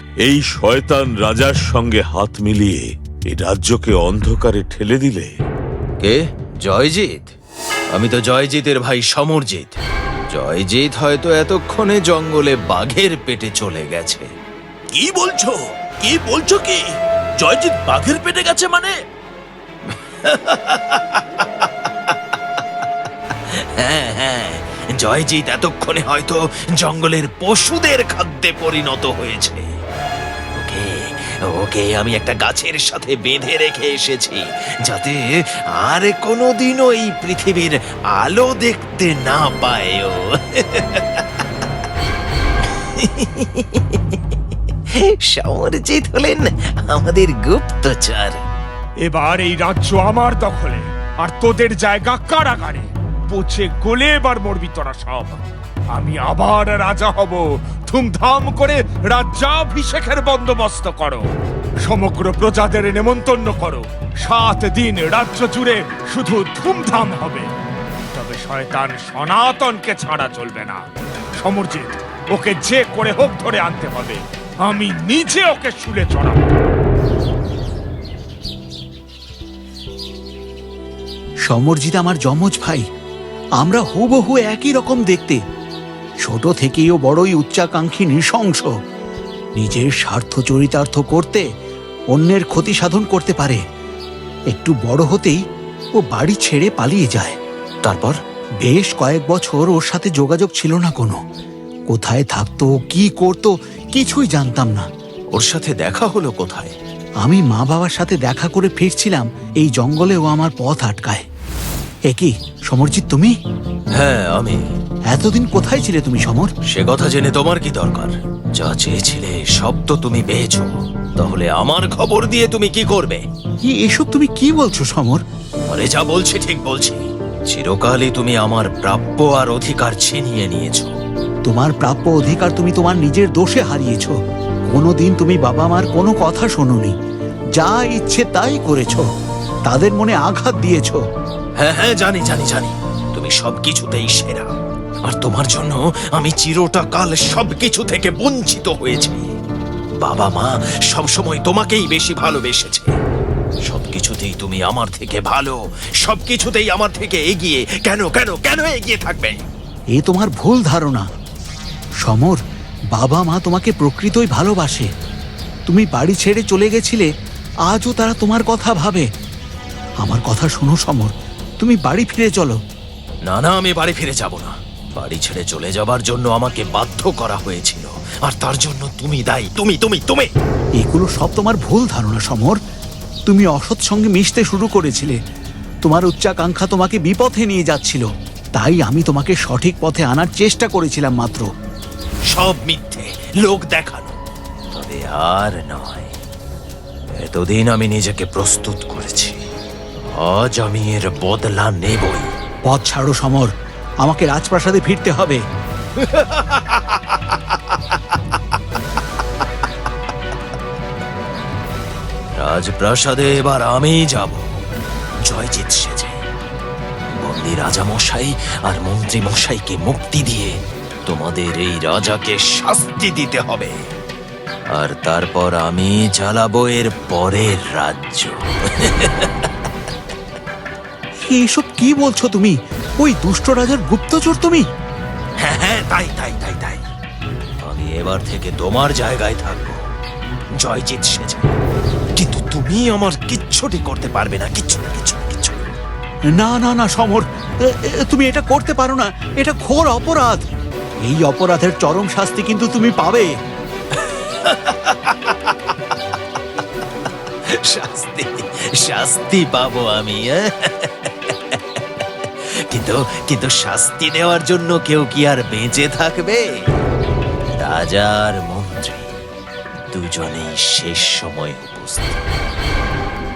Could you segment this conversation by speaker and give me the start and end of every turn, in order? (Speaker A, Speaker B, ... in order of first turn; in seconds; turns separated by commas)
Speaker A: 0.2-5.3, Speaker B: 6.0-7.3, Speaker B: 7.9-9.8, Speaker B: 10.3-14.3, Speaker C: 14.9-16.8, Speaker C: 17.4-18.9, Speaker B: 20.1-21.2, Speaker B: 23.5-29.7, Speaker B: 30.6-41.2, Speaker B: 42.8-44.1, Speaker B: 45.2-48.4, Speaker D: 49.0-55.4, Speaker D: 55.9-61.3, Speaker D: 61.9-67.5, Speaker D: 68.1-70.8, Speaker D: 71.4-76.6, Speaker E: 81.5-82.8, Speaker E: 83.6-85.4, Speaker E: 86.2-88.7, Speaker E: 89.6-91.4, Speaker E: 92.1-93.6, Speaker E: 94.5-95.4, Speaker E: 96.0-97.4, Speaker B: 97.8-98.2, Speaker E: 98.6-101.2, Speaker E: 101.9-104.8, Speaker B: 105.3-106.7, Speaker E: 107.2-111.2, Speaker E: 112.1-113.3, Speaker B: 113.9-114.6, Speaker E: 115.1-116.5, Speaker B: 116.7-123.2, Speaker E: 123.7-125.2, Speaker B: 125.7-131.0, Speaker E: 131.5-134.2, Speaker E: 134.7-136.9, Speaker E: 137.6-139.1, Speaker E: 139.7-141.0, Speaker B: 141.6-144.5, Speaker B: 145.1-149.3, Speaker B: 150.0-152.9, Speaker B: 153.7-159.4, Speaker E: 160.0-161.1, Speaker E: 162.0-162.4, Speaker E: 162.9-164.9, Speaker E: 165.7-167.1, Speaker E: 167.7-169.1, Speaker E: 170.0-172.6, Speaker B: 173.2-180.3, Speaker E: 180.8-182.6, Speaker E: 183.3-185.2, Speaker E: 185.8-188.1, Speaker E: 188.6-191.5, Speaker B: 192.3-194.2, Speaker B: 194.7-196.1, Speaker B: 197.2-199.4, Speaker B: 200.1-202.3, Speaker E: 202.7-203.5, Speaker E: 204.0-205.4, Speaker B: 206.0-207.0, Speaker B: 212.4-214.4, Speaker B: 215.2-216.2, Speaker B: 217.1-223.8, Speaker B: 224.7-229.4, Speaker E: 231.3-234.6, Speaker B: 235.4-236.8, Speaker B: 237.6-239.8, Speaker B: 240.6-241.5, Speaker B: 242.2-245.7, Speaker E: 246.4-250.4, Speaker E: 251.1-253.3, Speaker B: 254.1-255.5, Speaker B: 257.6-261.8, Speaker B: 262.7-266.5, Speaker B: 267.6-269.1, Speaker B: 269.9-272.2